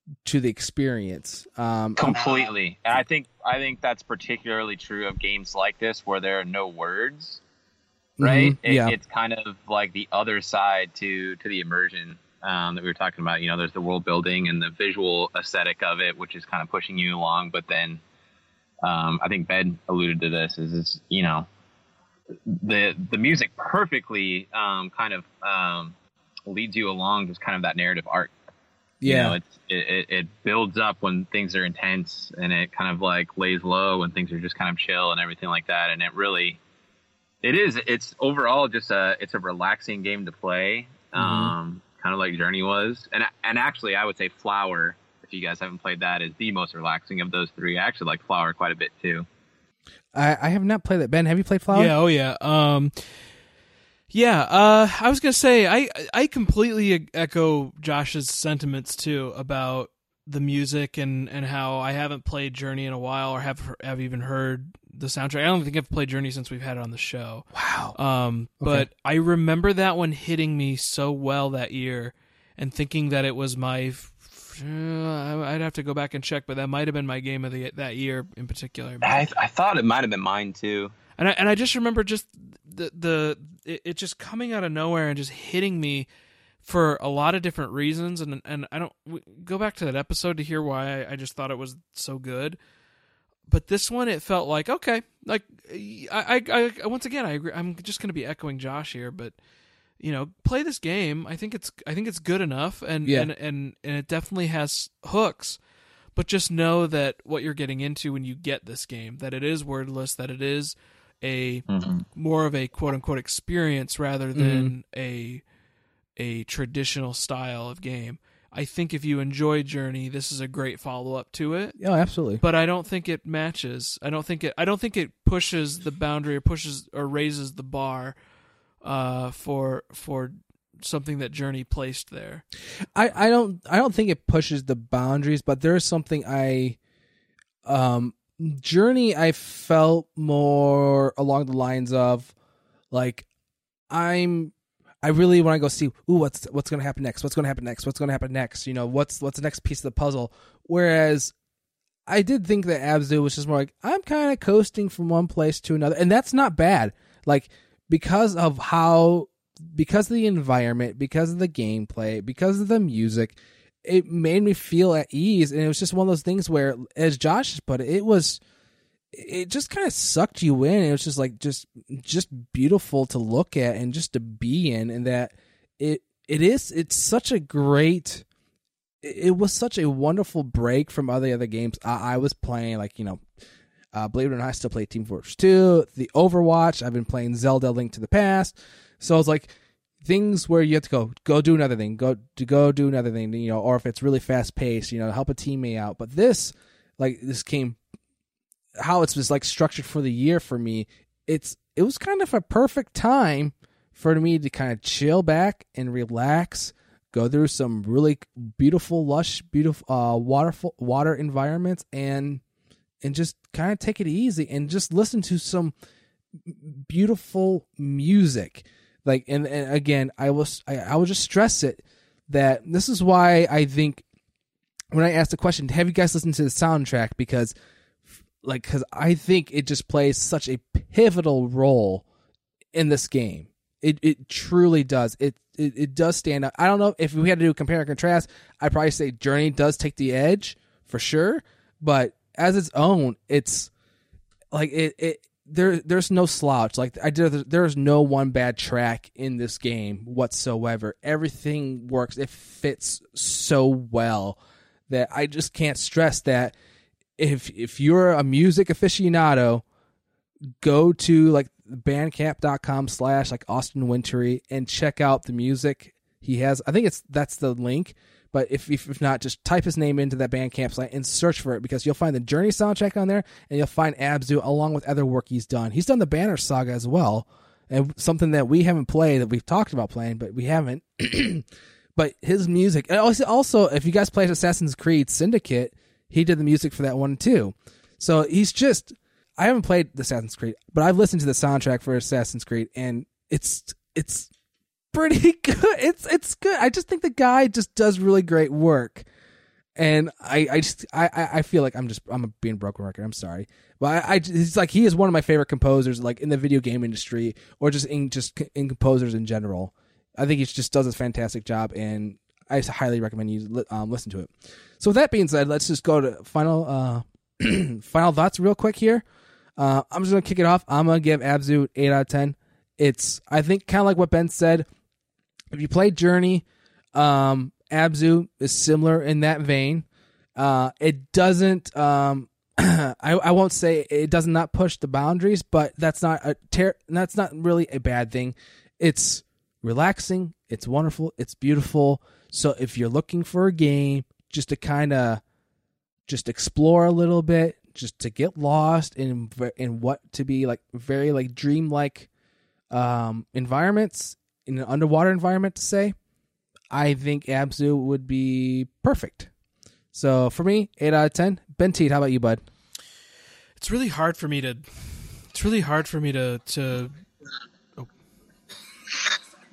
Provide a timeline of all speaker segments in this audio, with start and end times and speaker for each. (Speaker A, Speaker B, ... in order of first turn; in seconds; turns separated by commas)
Speaker A: 0.2-2.2, Speaker B: 2.0-7.4, Speaker A: 8.2-8.9, Speaker B: 8.2-18.0, Speaker B: 18.8-21.5, Speaker B: 22.5-25.9, Speaker B: 26.5-28.3, Speaker A: 29.0-29.4, Speaker B: 29.0-36.6, Speaker B: 37.4-49.3, Speaker A: 41.1-41.5, Speaker A: 50.1-51.9, Speaker C: 51.7-53.1, Speaker C: 54.1-79.3, Speaker A: 67.5-68.0, Speaker A: 68.6-68.9, Speaker B: 79.0-80.9, Speaker C: 81.2-86.1, Speaker C: 86.6-92.6, Speaker C: 93.5-99.4, Speaker C: 100.0-105.6, Speaker A: 103.0-103.3, Speaker C: 106.2-115.4, Speaker B: 111.7-112.0, Speaker A: 114.3-114.7, Speaker C: 116.2-121.8, Speaker A: 121.8-122.4, Speaker C: 122.4-128.2, Speaker C: 128.8-132.4, Speaker A: 132.9-136.8, Speaker A: 137.7-142.3, Speaker A: 142.9-143.3, Speaker A: 143.9-151.3, Speaker A: 152.1-168.4, Speaker A: 169.1-178.2, Speaker A: 179.0-183.2, Speaker A: 183.9-189.5, Speaker A: 190.0-197.8, Speaker A: 198.8-212.4, Speaker A: 213.0-215.7, Speaker A: 216.4-224.0, Speaker A: 224.9-227.5, Speaker A: 228.4-232.0, Speaker A: 232.7-243.7, Speaker A: 244.5-256.5, Speaker A: 257.2-259.6, Speaker A: 260.6-294.3, Speaker A: 294.9-299.1, Speaker A: 299.8-319.0, Speaker A: 319.6-324.7, Speaker A: 325.5-345.2, Speaker A: 346.1-352.1, Speaker A: 352.7-355.9, Speaker A: 356.7-359.3, Speaker A: 359.9-362.4, Speaker C: 363.6-366.9